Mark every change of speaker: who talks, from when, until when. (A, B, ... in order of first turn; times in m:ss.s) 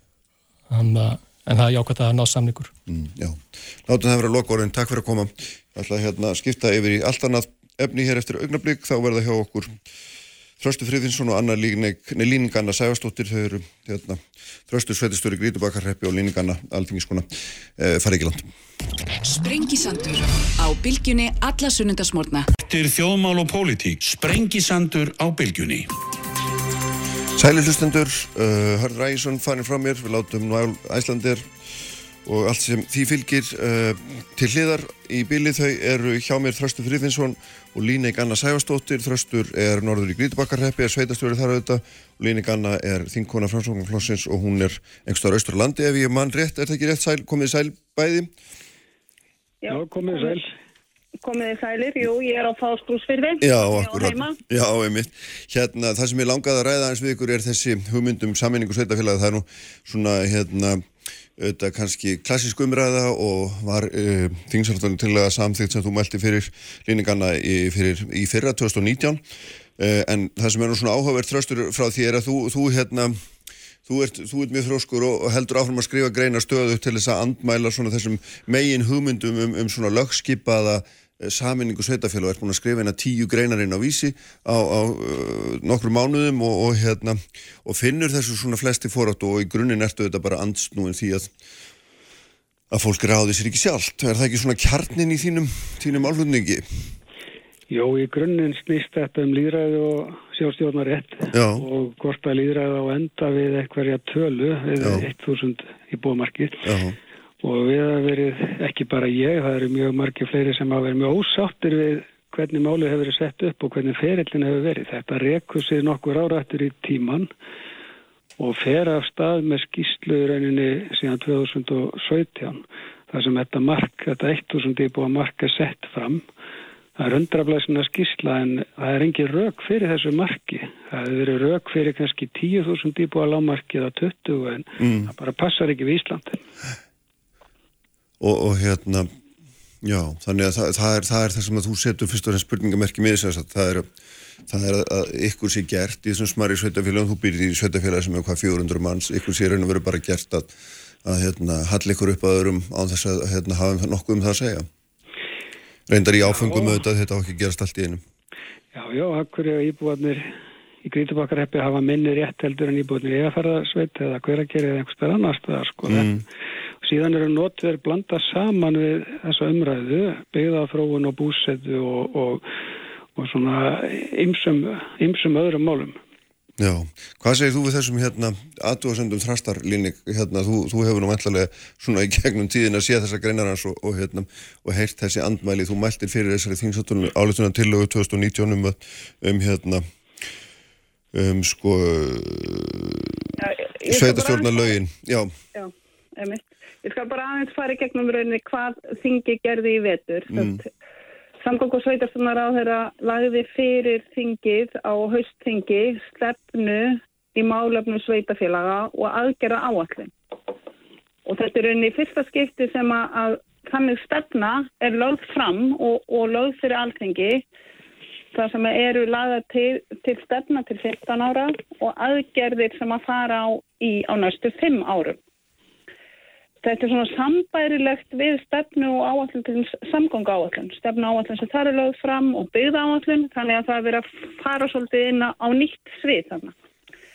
0:00.7-0:02.7 A
0:02.9-0:09.8 B
0:10.6-0:18.5 B
0:19.2-0:22.5 C
0:22.6-0:25.9 D
0:27.4-0:31.5 B
0:32.2-0:48.3 B
0:49.6-0:50.4 E
0:49.7-0:50.6 F
0:51.2-0:54.4 E
0:53.4-1:09.2 B
1:09.8-1:13.2 B
1:13.9-1:31.3 B
1:32.7-1:36.9 B
1:37.7-1:46.7 F
1:41.3-1:41.7 B
1:44.8-1:45.1 B
1:46.6-1:47.0 B
1:47.4-1:57.3 F
1:58.4-2:06.2 F
2:07.0-2:16.4 F
2:14.8-2:15.1 B
2:18.2-2:19.1 B
2:19.8-2:23.9 B
2:24.5-2:34.7 B
2:35.9-2:38.0 B
2:36.3-2:36.8 F
2:38.7-2:40.3 F
2:40.8-2:46.1 F
2:45.9-2:46.2 B
2:46.8-2:52.4 F
2:53.2-2:56.0 F
2:56.6-3:09.9 B
3:11.1-3:13.3 B
3:13.4-3:14.8 E
3:13.9-3:15.3 B
3:15.6-3:20.7 E
3:20.3-3:20.6 B
3:21.4-3:30.1 E
3:31.3-3:37.4 E
3:38.3-3:45.2 E
3:46.6-3:56.5 E